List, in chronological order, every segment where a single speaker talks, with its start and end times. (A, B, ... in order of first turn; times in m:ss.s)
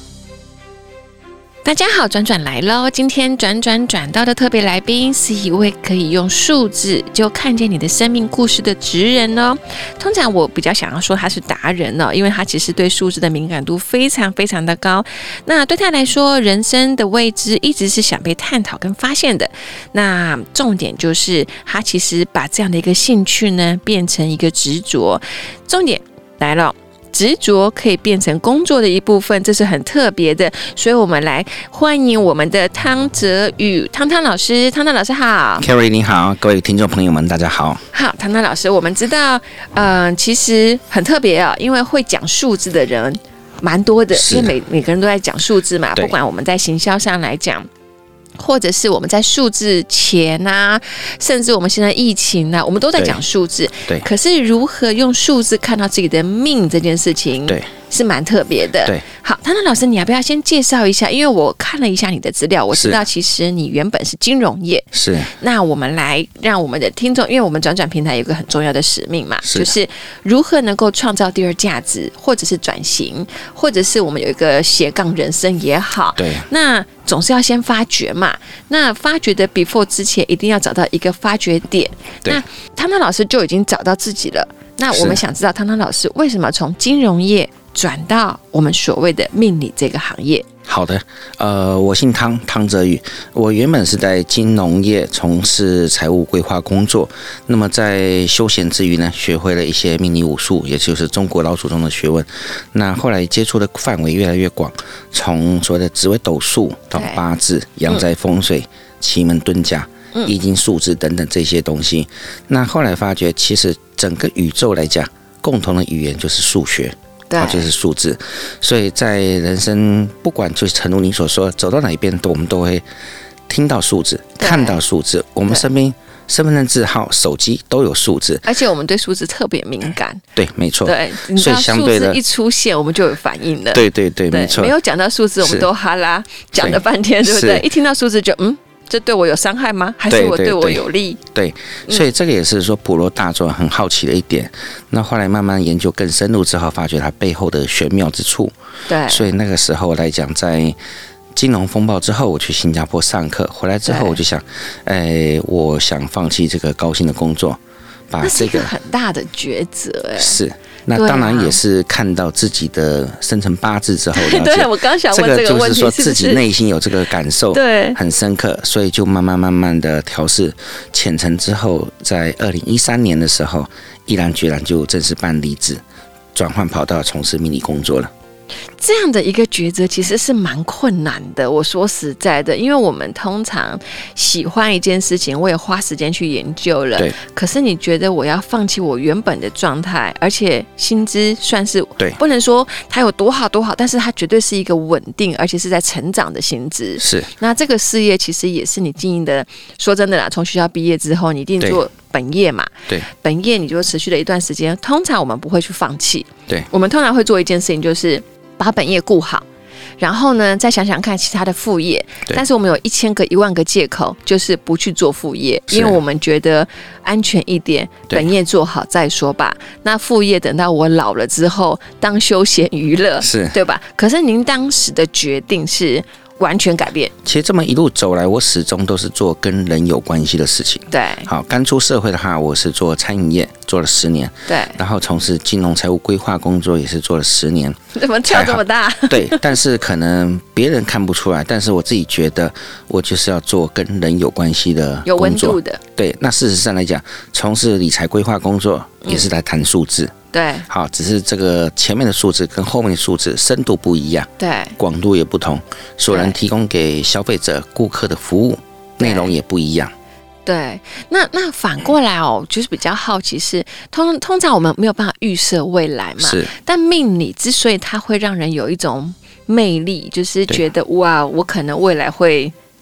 0:01.6-0:35.7 A
0:35.6-0:37.8 B
0:37.9-0:47.7 A
0:44.1-0:44.5 B
0:48.4-1:30.4 A
1:02.7-1:03.0 B
1:04.9-1:05.3 B
1:09.4-1:09.7 B
1:16.2-1:16.5 B
1:24.9-1:25.2 B
1:30.7-2:02.8 B
1:46.9-1:47.2 A
1:57.3-1:57.7 A
2:03.5-2:08.4 B
2:04.4-2:04.8 A
2:08.4-2:10.2 A
2:10.3-2:12.2 B
2:10.8-2:21.2 A
2:13.7-2:14.7 B
2:15.4-2:15.7 B
2:16.6-2:17.6 B
2:20.1-2:28.5 B
2:28.9-2:29.3 A
2:29.1-2:30.8 B
2:31.3-2:37.6 B
2:33.8-2:34.2 A
2:38.1-2:38.7 B
2:38.2-2:40.4 A
2:40.2-2:55.8 B
2:40.9-2:41.6 A
2:44.1-2:46.4 A
2:47.5-2:48.0 A
2:56.3-2:58.1 B
2:58.8-3:29.4 A
3:17.0-3:17.3 B
3:30.0-3:47.1 A
3:35.7-3:36.0 B
3:43.2-3:43.6 B
3:47.2-3:57.8 B
3:50.9-3:51.3 A
3:54.5-3:54.8 A
3:57.9-3:59.5 A
3:58.3-4:10.1 B
4:05.0-4:05.8 A
4:10.3-4:10.7 A
4:10.7-4:19.9 B
4:14.4-4:14.8 A
4:16.1-4:16.4 A
4:19.0-4:19.3 A
4:20.4-4:32.5 A
4:26.2-4:26.5 B